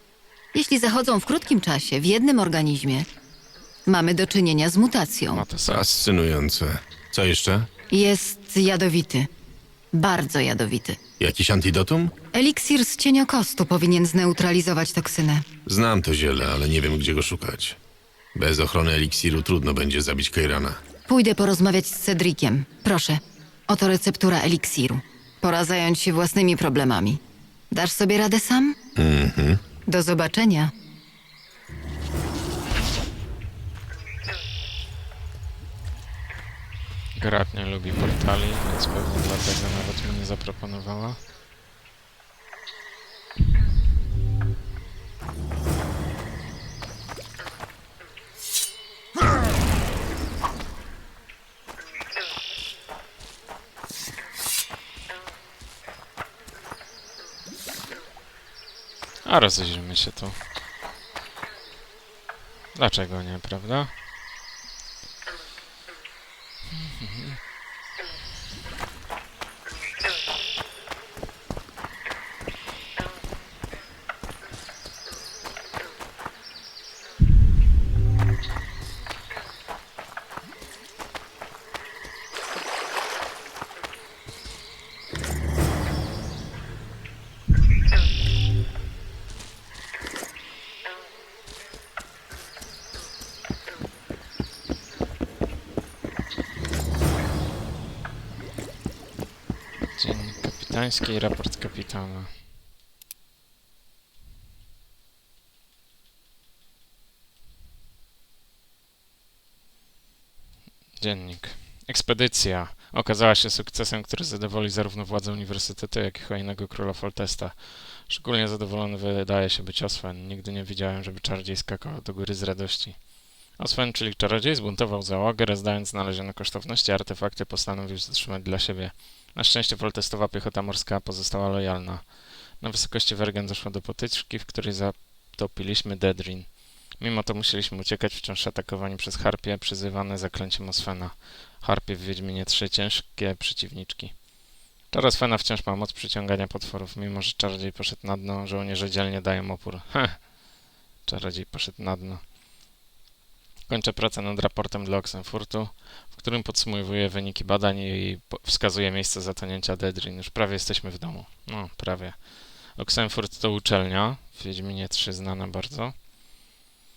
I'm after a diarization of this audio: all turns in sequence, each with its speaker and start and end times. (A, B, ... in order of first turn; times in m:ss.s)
0:00.5-0:03.1 A
0:03.9-0:05.4 A
0:05.3-0:06.1 B
0:05.7-0:07.7 C
0:07.9-0:09.3 A
0:09.9-0:11.0 A
0:11.2-0:12.1 C
0:12.3-0:15.4 A
0:15.6-0:17.8 C
0:18.3-0:20.8 C
0:21.1-0:27.2 A
0:27.7-0:28.8 A
0:29.0-0:29.6 C
0:29.9-0:30.7 A
0:37.2-0:41.2 B
0:59.2-1:00.4 B
1:02.8-1:03.9 B
1:06.8-1:07.4 B
1:40.0-1:42.4 B
1:51.0-2:24.2 B
2:24.9-2:30.4 B
2:31.0-2:32.3 B
2:33.7-2:46.0 B